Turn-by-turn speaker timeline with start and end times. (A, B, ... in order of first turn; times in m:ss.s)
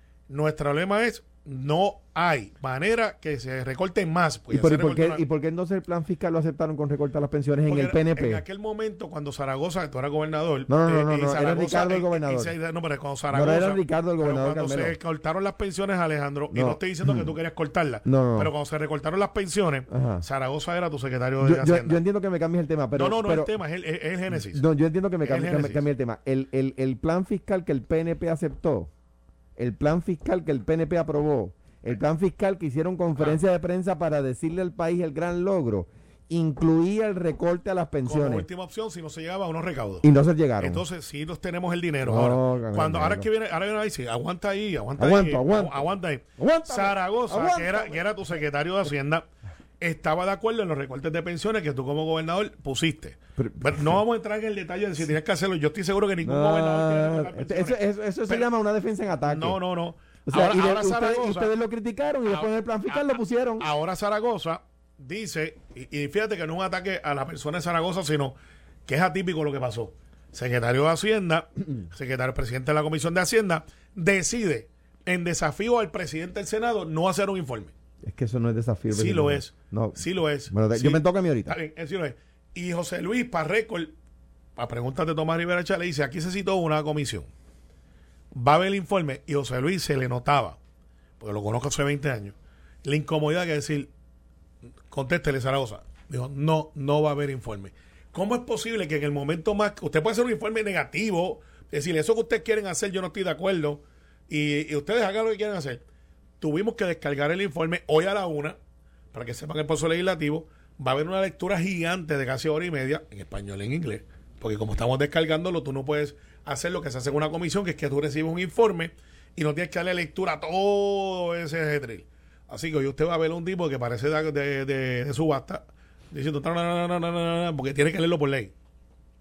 0:00.3-0:05.2 A
0:04.5-0:08.4 B
0:07.7-0:22.0 A
0:10.7-0:12.5 B
0:13.3-0:15.0 B
0:16.5-0:17.3 B
0:18.0-0:18.5 B
0:19.9-0:20.2 B
0:21.4-0:23.5 B
0:22.9-0:24.6 A
0:24.4-0:28.9 B
0:25.2-0:25.8 A
0:29.6-0:38.4 B
0:38.0-0:40.0 A
0:40.0-0:40.8 B
0:40.6-0:49.2 A
0:42.0-0:43.3 B
0:45.0-0:45.8 B
0:46.4-0:48.0 B
0:49.8-0:58.5 A
0:53.4-0:54.0 B
0:56.2-0:59.6 B
0:59.2-1:01.5 A
1:00.2-1:03.7 B
1:02.3-1:08.3 A
1:08.8-1:17.7 A
1:18.0-1:21.6 B
1:18.9-1:23.9 A
1:24.6-1:27.3 A
1:28.3-1:30.6 A
1:31.2-1:33.9 A
1:34.9-1:45.8 A
1:46.4-1:48.6 A
1:49.1-2:08.5 A